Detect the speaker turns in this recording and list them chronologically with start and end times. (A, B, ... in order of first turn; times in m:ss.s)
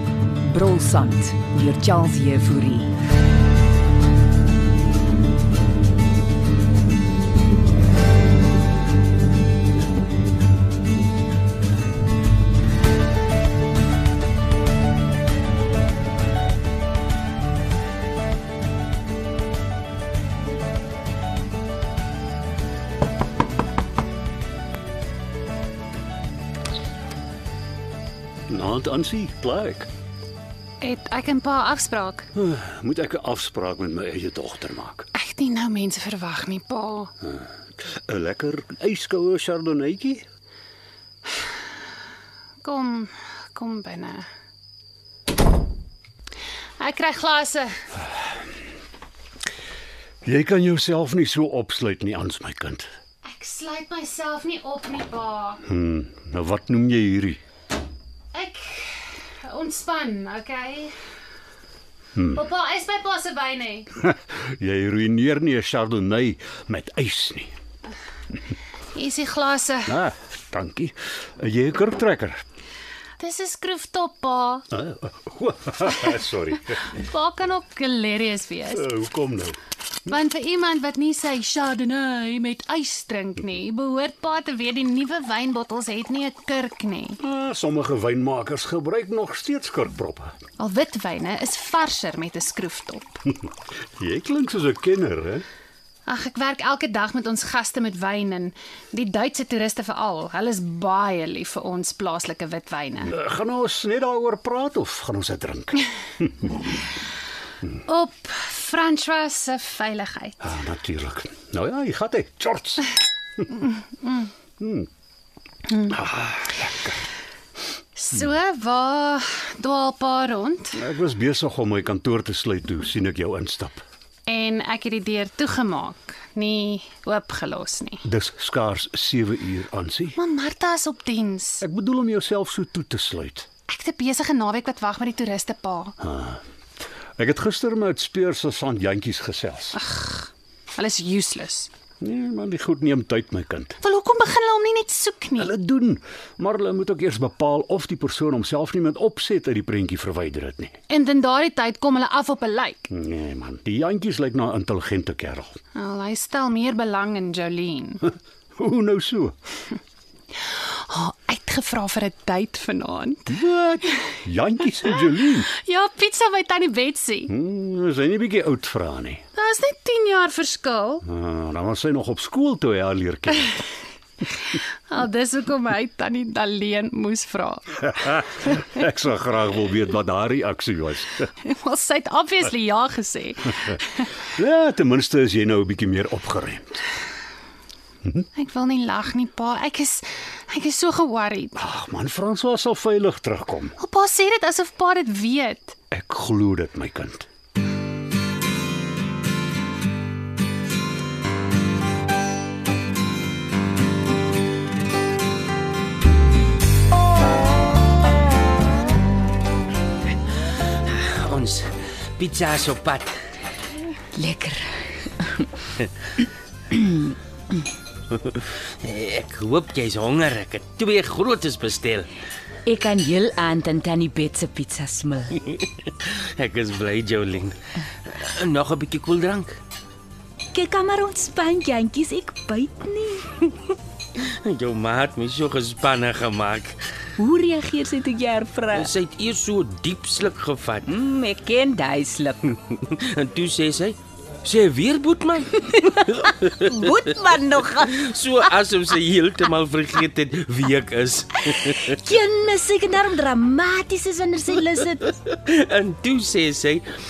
0:00.4-0:02.9 A
0:28.5-0:29.9 B
0:30.8-0:32.3 C
0:32.4-0:35.1 B
0:35.1-0:37.1 C
0:38.0-0:40.2 B
0:42.6-0:44.2 C
0:46.8-0:47.7 C
0:50.2-0:52.9 B
0:53.2-0:55.6 C
0:55.7-0:57.4 B
0:58.3-1:00.9 C
1:02.4-1:03.9 C
1:04.0-1:07.5 B
1:09.0-1:09.9 C
1:09.9-1:12.4 B
1:13.2-1:14.6 C
1:14.7-1:16.8 B
1:17.0-1:18.8 C
1:18.8-1:19.6 B
1:20.1-1:27.2 C
1:27.2-1:30.3 B
1:30.6-1:33.2 C
1:34.0-1:35.4 B
1:36.1-1:43.1 C
1:43.1-1:46.8 B
1:47.9-1:50.4 C
1:50.4-1:52.9 B
1:54.0-1:54.3 C
1:54.6-1:54.9 B
1:55.9-1:57.0 B
1:58.0-2:00.8 C
2:00.8-2:03.8 B
2:04.3-2:08.0 C
2:08.0-2:10.2 B
2:10.2-2:11.6 C
2:11.6-2:13.5 B
2:13.7-2:16.0 C
2:16.0-2:16.4 B
2:17.2-2:19.8 B
2:19.8-2:21.7 C
2:22.0-2:23.8 B
2:23.8-2:25.5 C
2:25.4-2:30.8 B
2:30.9-2:32.8 C
2:32.9-2:35.6 B
2:35.8-2:38.0 C
2:38.6-2:39.3 B
2:40.9-2:43.3 C
2:43.3-2:45.5 B
2:45.5-2:47.3 C
2:47.3-2:49.2 B
2:49.4-2:51.0 C
2:51.1-2:53.5 B
2:54.9-2:57.7 C
2:57.9-3:01.3 B
3:01.4-3:04.1 C
3:04.3-3:06.8 B
3:08.4-3:11.6 C
3:11.6-3:13.8 B
3:13.8-3:15.8 C
3:15.9-3:17.3 B
3:30.8-3:33.1 D
3:34.1-3:35.5 E
3:36.7-3:37.2 E
3:38.1-3:42.1 D
3:42.7-3:45.3 E
3:45.5-3:47.6 D
3:48.1-3:49.6 D
3:50.5-3:53.3 E
3:53.7-3:56.8 D
3:57.2-3:59.0 E
3:58.7-4:00.9 D
4:00.9-4:02.5 E
4:02.5-4:07.0 D
4:05.8-4:08.0 E
4:07.8-4:12.0 D
4:11.5-4:15.1 E
4:15.1-4:16.8 D